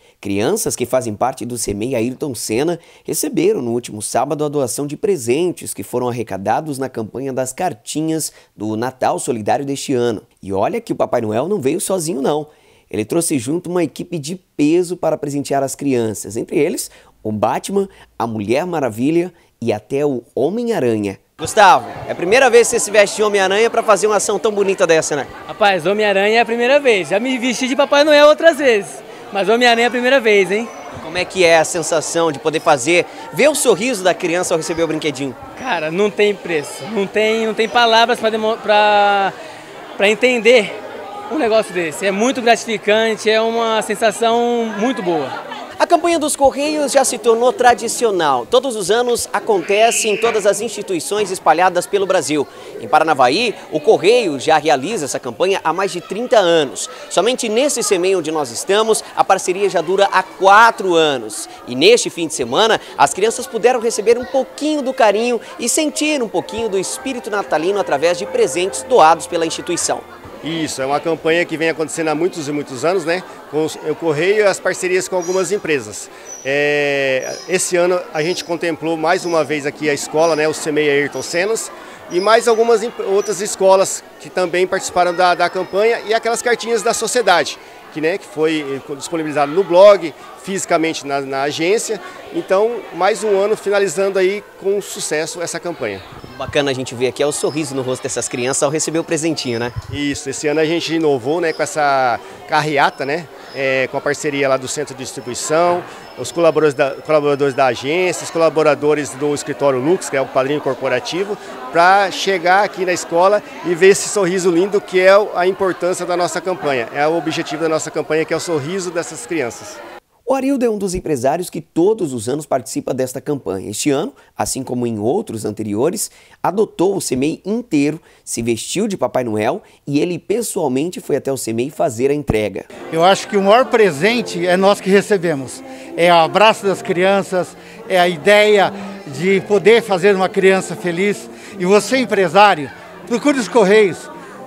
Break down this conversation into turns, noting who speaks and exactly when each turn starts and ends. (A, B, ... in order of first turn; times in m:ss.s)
0:00.2-0:25.3 A
0:25.5-0:30.7 B
0:31.0-0:35.4 A
0:35.6-0:39.4 B
0:40.0-0:40.8 B
0:41.3-0:45.4 B
0:45.8-1:10.1 A
1:10.4-1:36.0 C
1:36.3-1:39.8 A
1:39.9-1:59.8 C
2:00.3-2:12.7 A
2:12.9-2:24.1 D